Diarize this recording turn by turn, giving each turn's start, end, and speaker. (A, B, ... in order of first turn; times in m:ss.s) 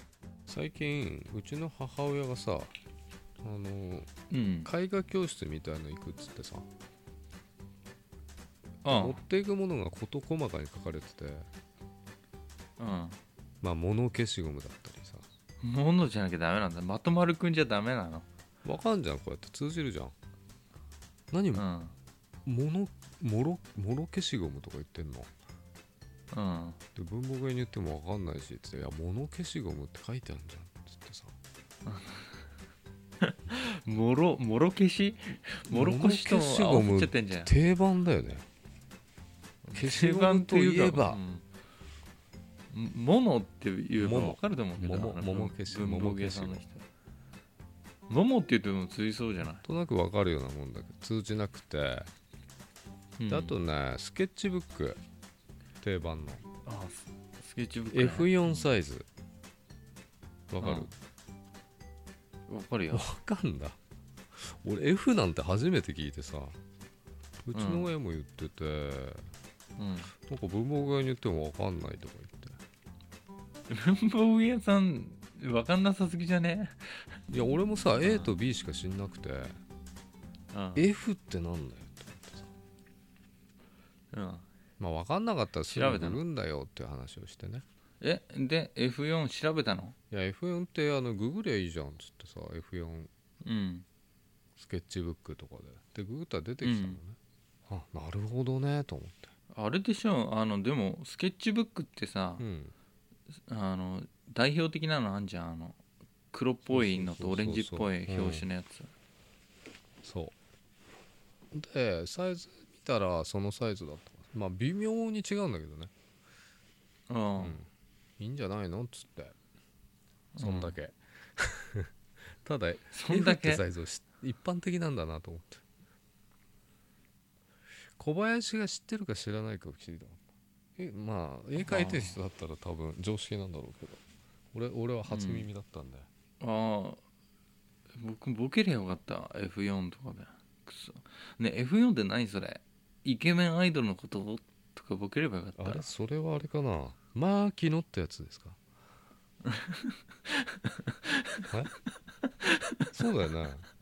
0:00.5-0:02.7 A
0:03.4-0:04.1 A
0:04.3-0:04.7 B
0:04.6-0:06.7 A
0:08.8-0:09.2 B
0:08.9-0:11.5 A
0:12.8-0:13.2 B
0:13.6-0:15.2 A
0:15.6-0:18.2 B
0:18.6-0:20.1 A
0:21.3-0:21.6 A
0:21.5-0:21.9 B
0:22.4-0:25.3 A
0:26.3-0:26.8 B
0:26.9-0:31.3 A
0:31.8-0:32.4 B
0:33.2-0:37.5 B
0:35.7-0:38.4 A
0:39.6-0:41.4 B
0:39.7-0:41.2 A
0:42.7-0:46.8 B
0:44.0-0:46.6 A
0:48.1-0:49.6 B
0:49.6-0:52.1 A
0:53.2-0:53.6 B
0:53.3-0:55.0 A
0:55.8-0:56.4 A
0:56.6-0:58.7 B
0:57.9-0:59.1 A
1:00.5-1:00.9 A
1:00.6-1:00.9 B
1:02.5-1:03.1 B
1:02.9-1:03.8 A
1:04.3-1:06.6 A
1:07.4-1:09.3 A
1:07.5-1:07.9 B
1:09.8-1:10.1 B
1:10.2-1:12.6 A
1:13.7-1:17.2 B
1:17.3-1:19.6 A
1:18.0-1:18.3 B
1:20.5-1:20.8 B
1:20.8-1:22.5 A
1:24.1-1:24.4 B
1:24.8-1:27.6 A
1:25.7-1:26.2 B
1:28.0-1:29.9 B
1:30.1-1:33.1 A
1:33.4-1:33.8 B
1:34.6-1:37.2 A
1:36.6-1:37.0 B
1:37.7-1:39.3 A
1:39.5-1:42.4 B
1:42.4-1:42.7 A
1:43.5-1:45.8 B
1:46.3-1:48.9 B
1:46.7-1:48.5 A
1:50.0-1:50.3 A
1:51.5-1:55.9 A
1:57.1-1:57.6 B
1:57.4-1:57.7 A
1:58.2-1:59.4 A
2:00.4-2:00.8 B
2:00.4-2:01.9 A
2:02.4-2:05.6 A
2:02.9-2:03.6 B
2:08.0-2:10.2 A
2:10.8-2:14.0 A
2:11.6-2:12.2 B
2:14.5-2:16.1 A
2:15.1-2:15.5 B
2:16.4-2:17.0 B
2:18.0-2:25.9 B
2:25.6-2:28.6 A
2:29.5-2:31.4 B
2:32.9-2:33.6 A